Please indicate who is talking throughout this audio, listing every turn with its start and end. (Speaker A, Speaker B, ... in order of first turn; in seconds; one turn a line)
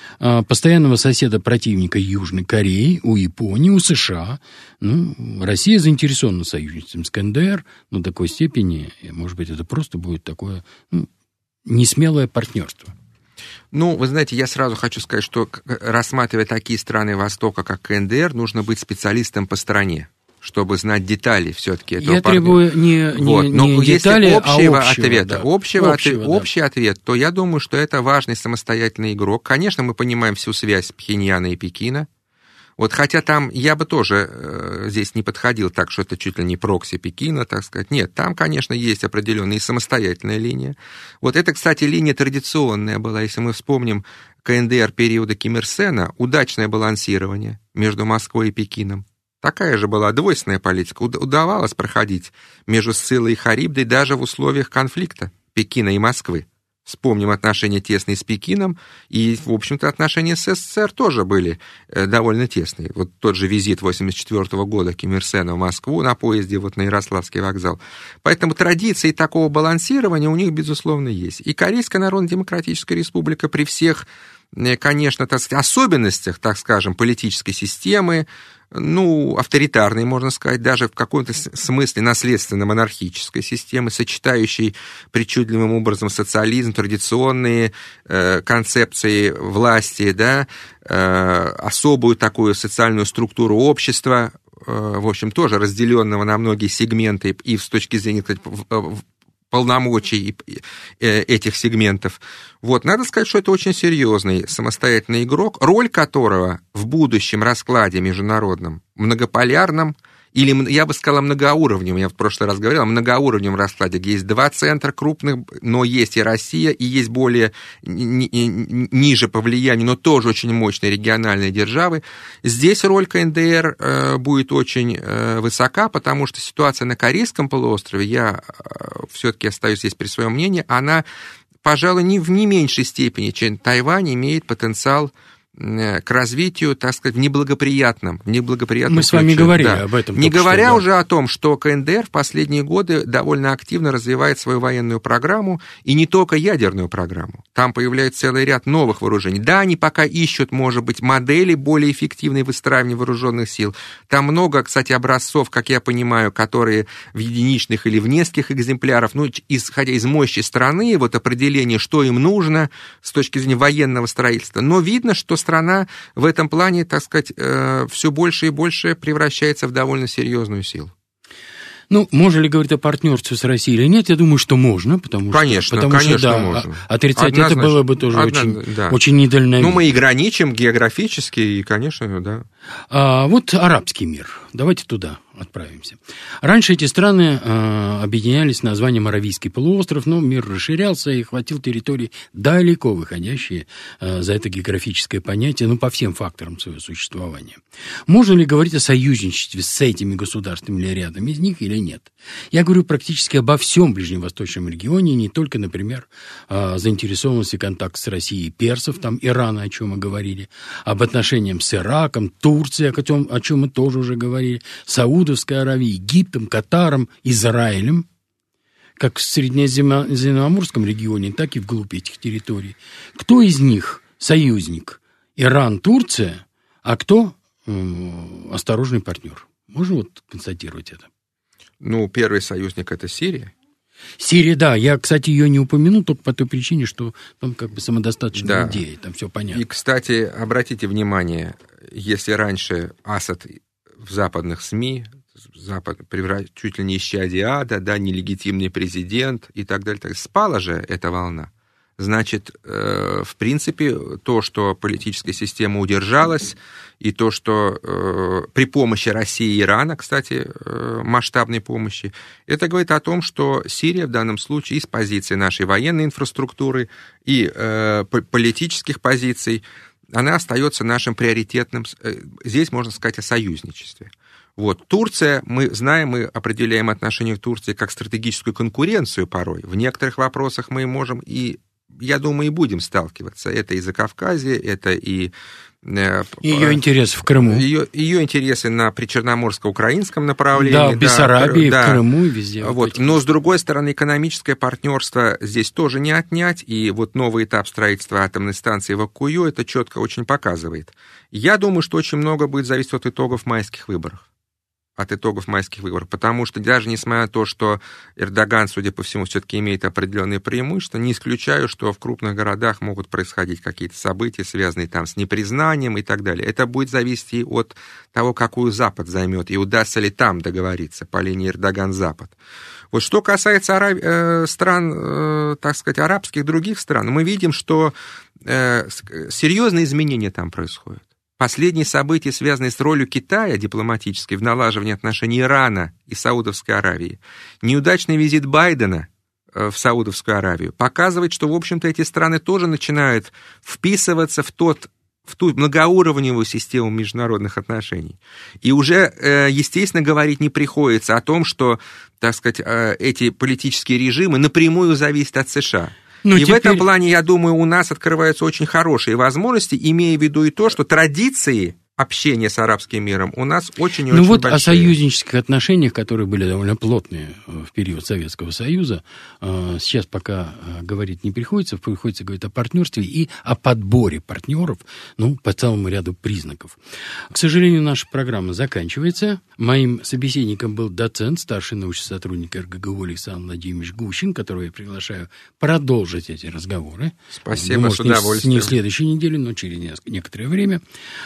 Speaker A: 0.2-11.1
Speaker A: 11.7-12.9
Speaker B: 13.7-22.6
Speaker A: 22.0-26.5
Speaker B: 23.2-32.1
Speaker B: 32.8-131.0
Speaker B: 131.6-170.9
Speaker A: 138.9-140.8
Speaker A: 171.9-179.8
Speaker B: 175.3-179.0
Speaker B: 179.6-182.5
Speaker A: 182.9-218.1
Speaker A: 219.0-231.1
Speaker B: 231.8-233.5
Speaker A: 234.2-239.6
Speaker B: 238.3-238.8
Speaker B: 239.5-285.3
Speaker B: 285.8-286.8
Speaker A: 286.4-287.7
Speaker B: 287.3-292.0
Speaker A: 290.5-293.3
Speaker B: 292.6-304.3
Speaker B: 305.0-322.4
Speaker B: 322.9-365.0
Speaker A: 356.2-356.9
Speaker A: 364.1-376.8
Speaker A: 377.3-390.8
Speaker B: 387.4-388.7